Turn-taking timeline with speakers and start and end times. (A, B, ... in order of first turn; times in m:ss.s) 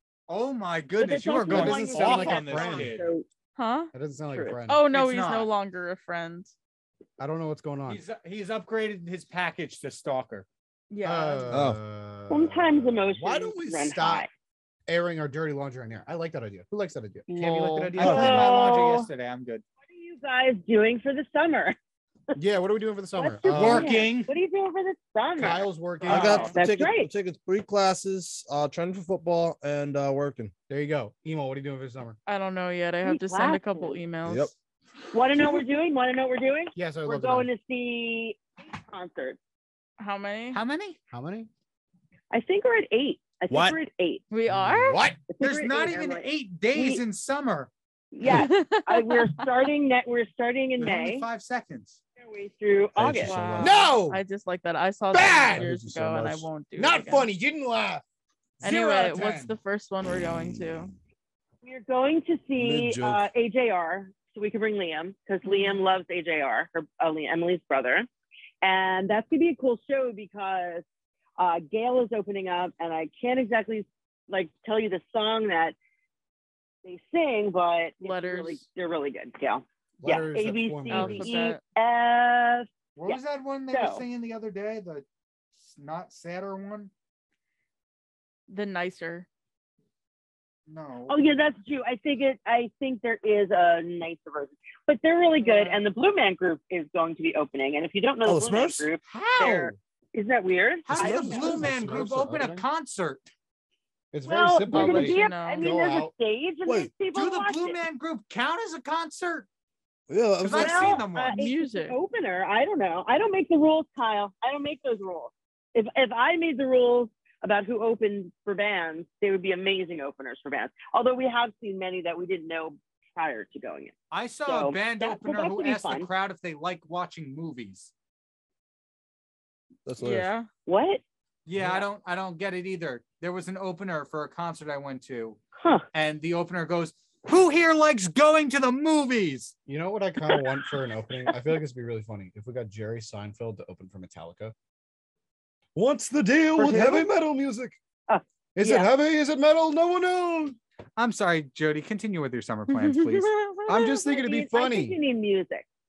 0:00.3-0:03.1 A
0:01.0-0:03.3 B
0:01.5-0:03.0 C
0:03.6-0:03.9 D
0:03.9-0:04.9 C
0:04.3-0:04.6 B
0:04.7-0:06.5 D
0:04.9-0:05.5 A
0:07.2-0:08.0 C
0:07.9-0:10.5 A
0:10.9-0:11.6 D
0:11.0-0:14.3 C
0:11.5-0:11.8 E
0:12.3-0:14.3 B
0:14.9-0:18.4 C
0:17.4-0:19.6 A
0:18.0-0:19.1 B
0:18.0-0:18.4 E
0:19.9-0:21.8 B
0:22.4-0:24.0 C
0:23.2-0:27.1 B
0:23.5-0:24.3 A
0:25.4-0:26.5 C
0:26.1-0:30.5 E
0:26.1-0:26.6 D
0:30.7-0:32.2 C
0:32.3-0:34.5 D
0:33.0-0:34.0 B
0:34.3-0:34.5 E
0:35.1-0:39.4 B
0:36.7-0:37.5 C
0:40.0-0:40.6 D
0:40.5-0:41.0 A
0:41.1-0:41.5 C
0:42.3-0:44.2 B
0:43.5-0:43.8 E
0:44.3-0:45.1 D
0:44.5-0:45.2 C
0:45.3-0:47.0 B
0:45.4-0:47.7 A
0:48.1-0:51.3 B
0:48.3-0:49.7 D
0:50.8-0:52.0 A
0:52.2-0:53.4 B
0:53.0-0:53.9 E
0:53.2-0:57.3 D
0:53.6-0:54.2 C
0:55.1-0:55.7 C
0:55.2-0:56.5 E
0:56.8-0:58.0 C
0:58.6-0:59.5 C
0:58.6-1:00.9 D
1:01.6-1:08.1 B
1:02.6-1:03.2 E
1:05.4-1:05.8 D
1:08.6-1:10.8 B
1:11.4-1:15.8 B
1:16.8-1:24.0 B
1:18.0-1:18.6 D
1:20.0-1:21.4 C
1:20.9-1:21.6 D
1:23.0-1:26.9 A
1:28.5-1:29.3 D
1:30.7-1:31.2 A
1:31.1-1:41.7 B
1:35.4-1:35.8 D
1:38.2-1:39.7 E
1:40.9-1:43.3 A
1:41.0-1:42.2 E
1:41.1-1:42.6 C
1:44.1-1:46.1 C
1:44.2-1:47.8 B
1:44.7-1:45.8 D
1:46.7-1:46.9 E
1:47.1-1:49.5 A
1:50.1-1:51.0 E
1:50.4-1:51.5 A
1:50.5-2:03.9 B
1:51.3-1:52.0 D
2:04.1-2:07.9 A
2:04.5-2:06.1 B
2:09.9-2:10.3 E
2:10.0-2:10.5 D
2:10.7-2:11.0 B
2:11.5-2:15.4 A
2:11.6-2:11.8 C
2:15.6-2:15.9 B
2:15.9-2:19.5 A
2:19.7-2:24.6 C
2:20.3-2:20.7 B
2:25.8-2:27.8 C
2:26.6-2:27.1 B
2:28.1-2:28.9 B
2:28.6-2:30.6 C
2:31.0-2:33.3 A
2:32.7-2:33.6 D
2:33.7-2:35.0 C
2:33.7-2:35.6 B